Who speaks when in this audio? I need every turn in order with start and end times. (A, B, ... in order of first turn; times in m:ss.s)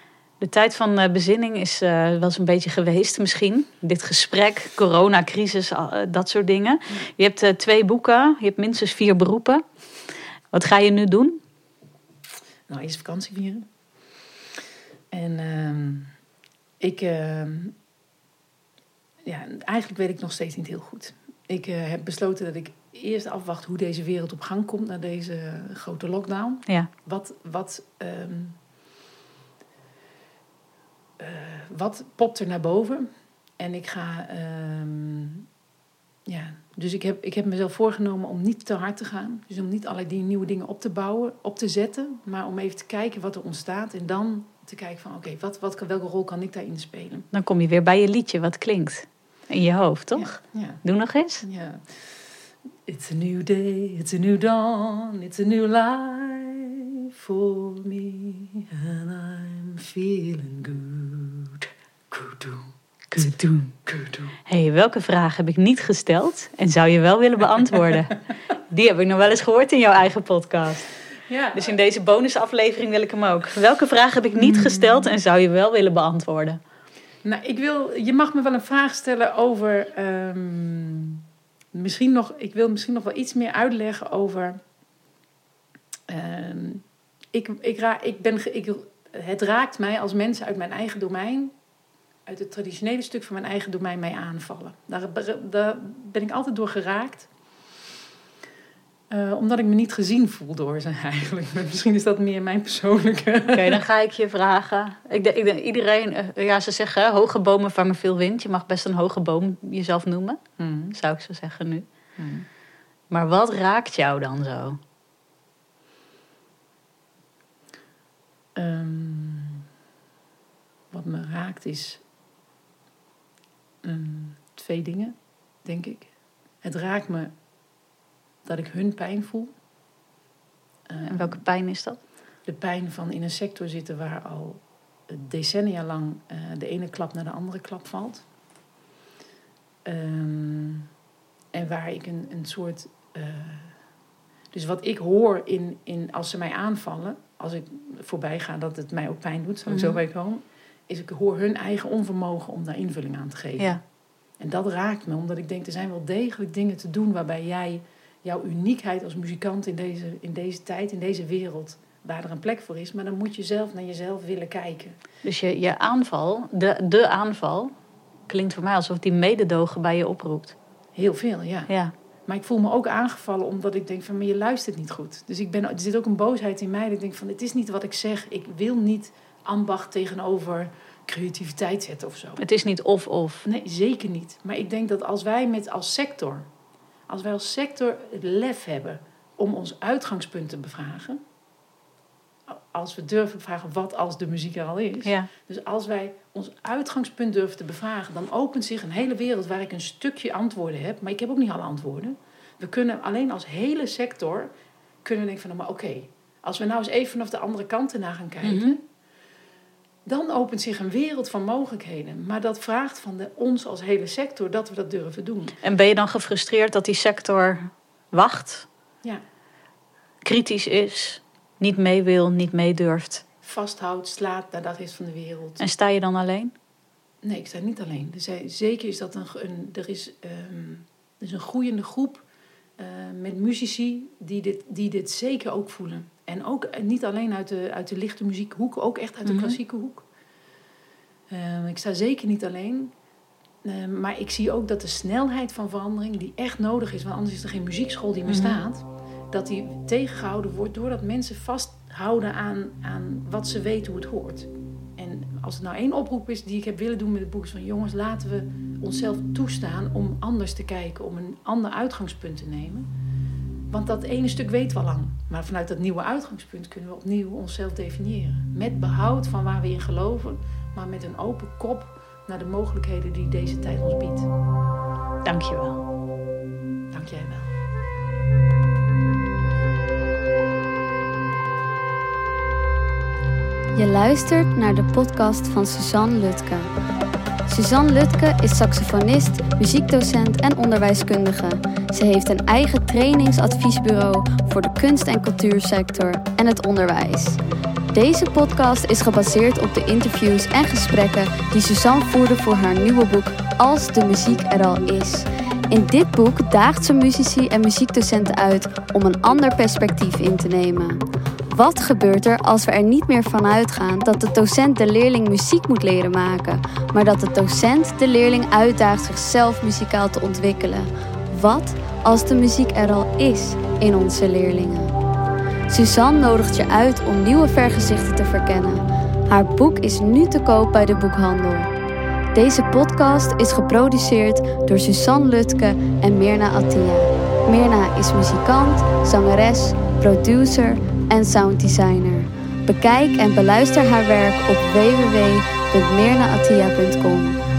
0:00.4-0:09.6 A
0:10.5-0:11.4 A
0:12.7-0:13.7 B
0:15.1-0:16.1 B
0:16.8-0:17.8 B
0:19.2-0:28.6 B
0:31.2-0:33.1 B
0:33.6-0:35.5 B
0:36.3-0:47.3 B
0:47.3-0:51.4 A
0:50.2-0:50.8 B
0:51.4-0:52.0 B
0:52.9-1:04.3 B
1:04.5-1:08.2 A
1:08.7-1:10.9 A
1:11.3-1:11.8 B
1:11.5-1:16.6 A
1:14.4-1:15.1 B
1:17.2-1:24.6 B
1:26.1-1:31.5 B
1:32.3-1:37.3 B
1:39.1-1:43.8 B
1:43.5-1:50.4 A
1:50.6-1:51.0 B
1:50.9-1:51.8 A
1:52.2-1:52.5 B
1:53.1-1:54.8 A
1:58.6-1:59.7 B
2:00.9-2:02.0 B
2:03.8-2:06.1 B
2:06.6-2:07.3 B
2:08.4-2:09.5 B
2:10.9-2:11.4 B
2:11.0-2:12.0 A
2:12.4-2:18.2 B
2:19.8-2:20.9 B
2:21.5-2:23.8 B
2:24.5-2:33.8 B
2:29.7-2:30.0 A
2:34.4-2:45.0 B
2:45.2-2:47.7 A
2:48.3-2:50.6 A
2:51.0-2:51.7 B
2:51.7-2:51.9 A
2:52.3-3:02.4 B
3:02.4-3:03.5 A
3:03.4-3:06.5 B
3:07.1-3:11.2 B
3:12.5-3:24.5 B
3:15.0-3:15.3 A
3:25.0-3:28.8 B
3:28.4-3:28.8 A
3:30.1-3:35.6 B
3:35.6-3:38.7 A
3:40.2-3:43.2 A
3:43.4-3:45.6 B
3:45.6-3:46.5 A
3:47.2-3:52.2 B
3:52.8-4:00.1 B
3:59.2-3:59.6 A
4:01.3-4:02.9 B
4:03.6-4:22.9 B
4:08.3-4:08.6 A
4:23.7-4:34.3 B
4:35.2-4:35.9 A
4:36.9-4:37.5 B
4:43.8-4:46.7 C
4:47.5-4:57.4 C
4:57.9-5:24.9 C
5:25.7-5:31.7 C
5:32.3-5:47.4 C